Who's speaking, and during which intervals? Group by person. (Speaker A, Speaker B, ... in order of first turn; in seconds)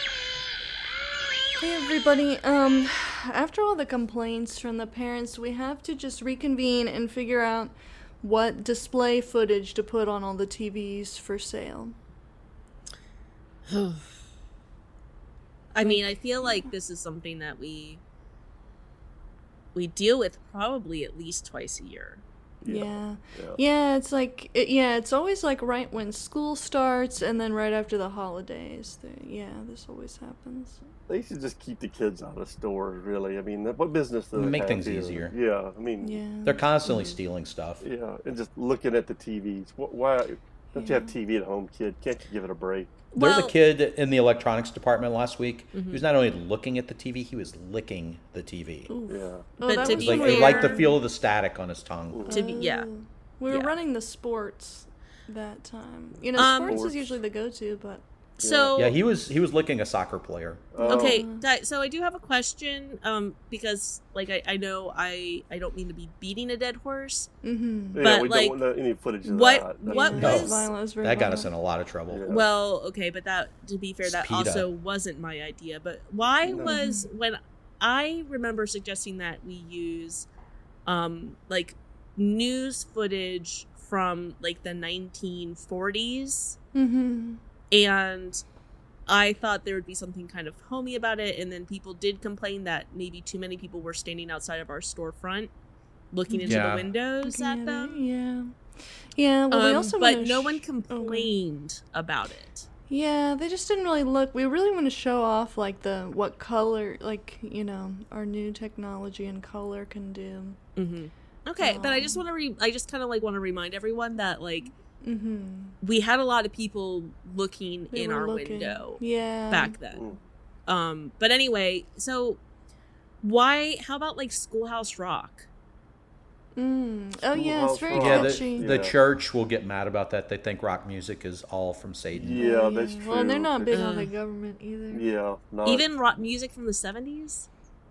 Speaker A: 1.6-11.9, 15.8-16.7, 22.7-30.8, 36.0-36.6, 40.7-41.1, 48.9-51.0, 52.3-58.0, 60.8-61.4, 67.4-68.0, 69.9-71.5, 76.6-77.1, 86.8-87.4, 96.3-96.6, 97.2-98.5, 99.2-101.3, 102.9-110.6, 111.6-112.2, 115.0-115.8, 117.9-119.8, 126.6-128.7, 132.4-135.0
Speaker B: 13.7-14.1, 15.7-18.0, 19.8-22.2, 36.9-37.1, 43.1-43.5, 45.7-46.0, 49.7-50.9, 52.3-52.9, 56.4-56.8, 58.4-59.0, 60.9-67.3, 68.0-68.6, 69.2-70.7, 72.3-80.3, 80.9-86.6, 87.7-88.4, 89.1-95.5, 96.1-98.0, 99.5-102.7, 110.8-114.7, 115.8-120.1, 120.7-122.4, 123.2-125.5, 133.7-134.1, 135.7-137.5
Speaker C: 22.6-23.6, 31.1-36.2, 37.8-43.0, 49.1-49.5, 52.1-52.4, 56.3-57.1, 58.4-58.8, 60.7-61.2, 68.0-70.5, 72.1-72.5, 76.4-76.8, 119.9-120.2, 127.3-128.9, 132.2-133.8, 134.9-135.9
Speaker D: 34.3-35.3, 36.5-37.8, 43.2-48.9, 49.8-52.3, 58.8-60.7, 70.2-72.2, 74.0-74.7, 96.5-96.9, 128.0-132.4